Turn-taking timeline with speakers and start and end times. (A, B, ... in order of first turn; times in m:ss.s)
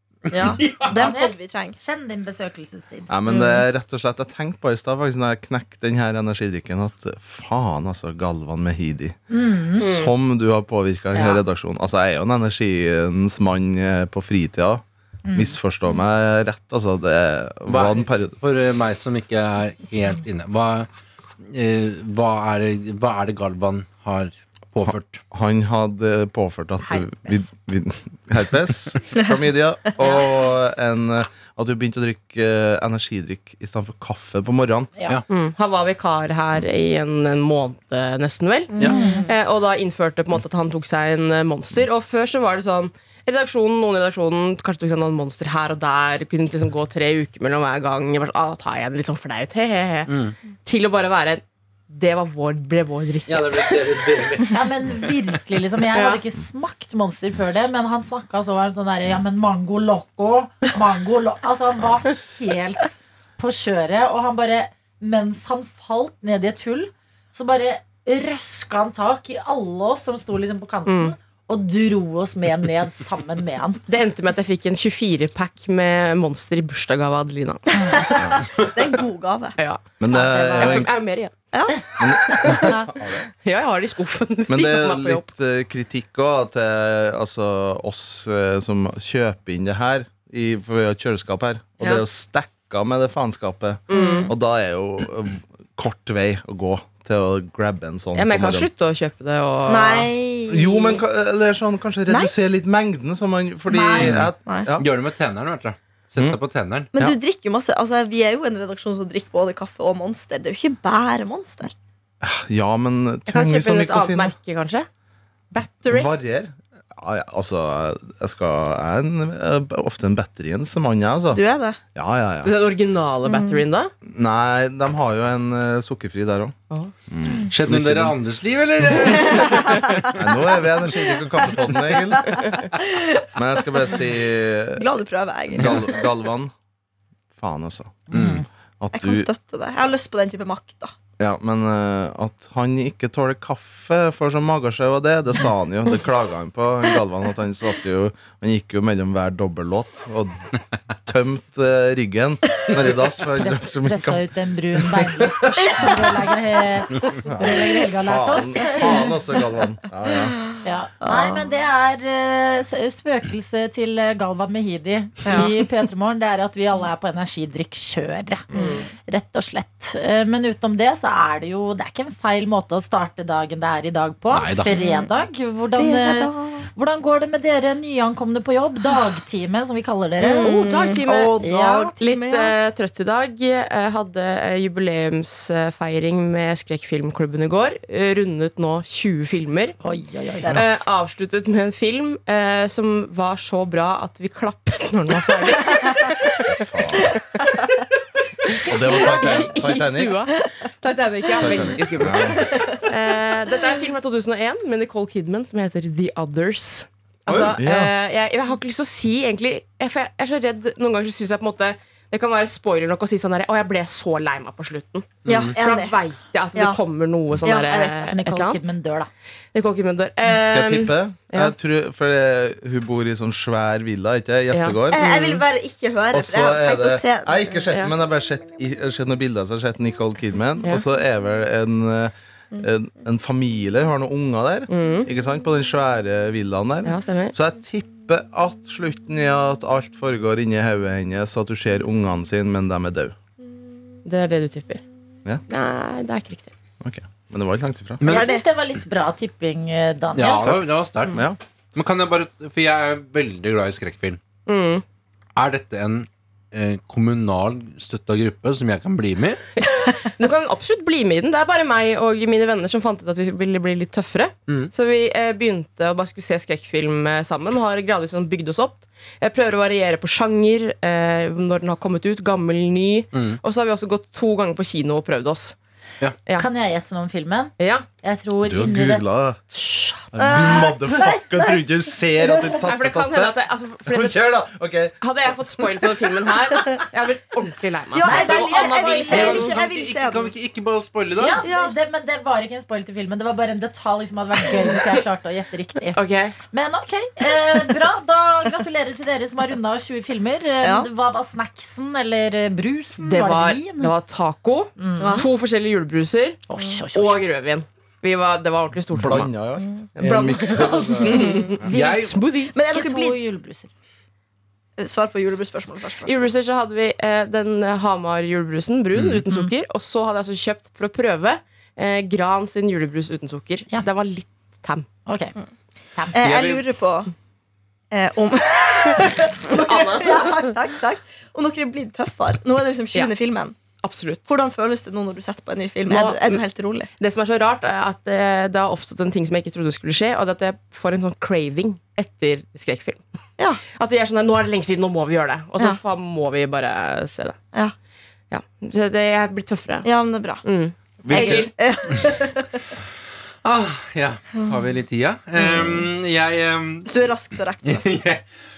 0:00.3-0:01.8 A
0:00.4-0:01.0 B
0:00.9-0:03.1 C
0:03.1-0:09.2 D
0:03.3-0:03.6 A
0:09.3-0:09.9 C
0:09.8-0:18.4 D
0:09.8-0:10.1 E
0:11.1-0:11.4 C
0:15.3-0:15.6 C
0:17.7-0:20.9 B
0:21.4-0:25.2 B
0:25.3-0:34.9 D
0:26.8-0:27.5 C
0:30.0-0:30.3 C
0:35.3-0:50.1 E
0:38.7-0:39.3 A
0:38.8-0:39.3 C
0:50.1-0:50.4 B
0:50.6-0:53.8 E
0:53.3-0:55.1 B
0:54.5-1:13.8 C
0:55.9-0:56.2 E
1:10.9-1:11.2 E
1:13.9-1:17.6 E
1:17.7-1:18.1 C
1:17.8-1:19.6 A
1:19.6-1:19.8 E
1:20.0-1:20.9 D
1:20.1-1:20.9 C
1:20.6-1:21.3 E
1:21.5-1:22.7 A
1:22.0-1:23.2 D
1:22.6-1:22.9 C
1:23.4-1:25.2 E
1:24.5-1:38.7 D
1:33.9-1:34.3 E
1:33.9-1:34.3 A
1:38.2-1:40.1 E
1:39.7-1:41.0 A
1:40.5-1:44.9 D
1:42.1-1:42.3 A
1:43.7-1:44.3 C
1:44.2-1:46.9 B
1:47.0-1:51.7 A
1:52.2-1:54.4 D
1:53.3-1:54.9 E
1:55.5-1:56.1 E
1:55.9-2:01.4 D
2:01.3-2:01.8 A
2:01.9-2:02.5 D
2:02.4-2:03.9 E
2:03.3-2:03.6 A
2:04.1-2:06.6 D
2:07.1-2:08.2 D
2:07.5-2:10.0 B
2:09.2-2:09.9 A
2:10.2-2:12.5 D
2:12.9-2:13.3 A
2:13.4-2:14.8 D
2:14.8-2:16.0 A
2:15.6-2:16.5 D
2:17.4-2:18.1 D
2:18.1-2:18.4 C
2:18.1-2:18.4 B
2:18.8-2:19.3 D
2:19.0-2:20.9 A
2:21.2-2:30.5 D
2:31.0-2:36.0 D
2:33.4-2:39.1 C
2:35.6-2:36.3 A
2:37.2-2:40.4 D
2:38.8-2:39.1 A
2:40.3-2:41.4 A
2:40.6-2:48.5 C
2:45.2-2:45.6 A
2:48.6-2:48.9 E
2:49.1-3:01.9 C
2:54.3-2:54.7 B
2:54.7-2:55.1 A
2:55.8-2:56.7 A
3:00.2-3:02.5 A
3:00.2-3:01.4 E
3:02.0-3:09.8 E
3:09.8-3:10.6 C
3:10.4-3:10.8 A
3:10.5-3:16.5 E
3:16.4-3:17.2 D
3:18.5-3:38.7 E
3:18.7-3:20.2 D
3:21.4-3:22.6 D
3:27.3-3:27.9 D
3:35.2-3:35.6 B
3:35.3-3:36.0 A
3:37.4-3:38.1 A
3:38.1-3:39.1 C
3:39.5-3:41.5 E
3:40.3-3:45.4 D
3:44.5-3:44.8 E
3:44.9-3:47.6 A
3:46.1-4:03.2 D
3:54.7-3:55.1 E
3:56.8-3:57.3 E
4:04.0-4:04.8 E
4:05.5-4:06.5 E
4:06.8-4:08.0 D
4:08.0-4:08.3 B
4:08.0-4:10.6 C
4:08.0-4:08.4 A
4:10.2-4:14.2 B
4:11.1-4:11.4 D
4:14.5-4:14.8 E
4:15.4-4:19.4 B
4:20.2-4:35.6 E
4:33.1-4:33.4 B
4:36.4-4:40.6 C
4:37.6-4:37.9 E
4:38.4-4:39.4 D
4:40.1-4:45.0 D
4:40.2-4:41.6 A
4:42.6-4:44.2 E
4:45.0-4:49.5 E
4:47.9-4:50.3 A
4:48.0-4:49.5 C
4:49.1-4:51.4 B
4:51.2-4:56.0 C
4:51.4-4:51.8 A
4:56.0-4:56.4 E
4:56.5-5:03.9 C
4:57.2-4:57.7 A
5:00.6-5:00.9 A
5:03.0-5:06.4 E
5:04.8-5:05.3 C
5:05.0-5:05.3 A
5:06.5-5:07.2 C
5:07.0-5:09.3 E
5:08.9-5:11.6 D
5:10.0-5:12.5 E
5:11.0-5:11.6 A
5:11.7-5:13.7 C
5:11.7-5:12.2 B
5:12.5-5:13.2 A
5:14.8-5:16.3 A
5:16.0-5:24.9 E
5:25.1-5:25.4 C
5:26.0-5:26.2 C
5:26.1-5:27.1 A
5:26.2-5:26.6 B
5:27.9-5:33.6 A
5:29.5-5:30.5 E
5:33.8-5:34.3 E
5:34.3-5:36.9 A
5:35.9-5:36.4 E
5:37.0-5:43.0 E
5:43.8-5:47.4 E
5:48.3-5:49.9 E
5:49.8-5:50.4 A
5:50.4-5:51.5 E
5:51.0-5:51.5 D
5:51.1-5:52.5 A
5:53.4-5:56.9 B
5:54.4-5:54.6 A
5:55.4-5:55.9 A
5:56.9-5:57.9 A
5:57.6-5:58.2 B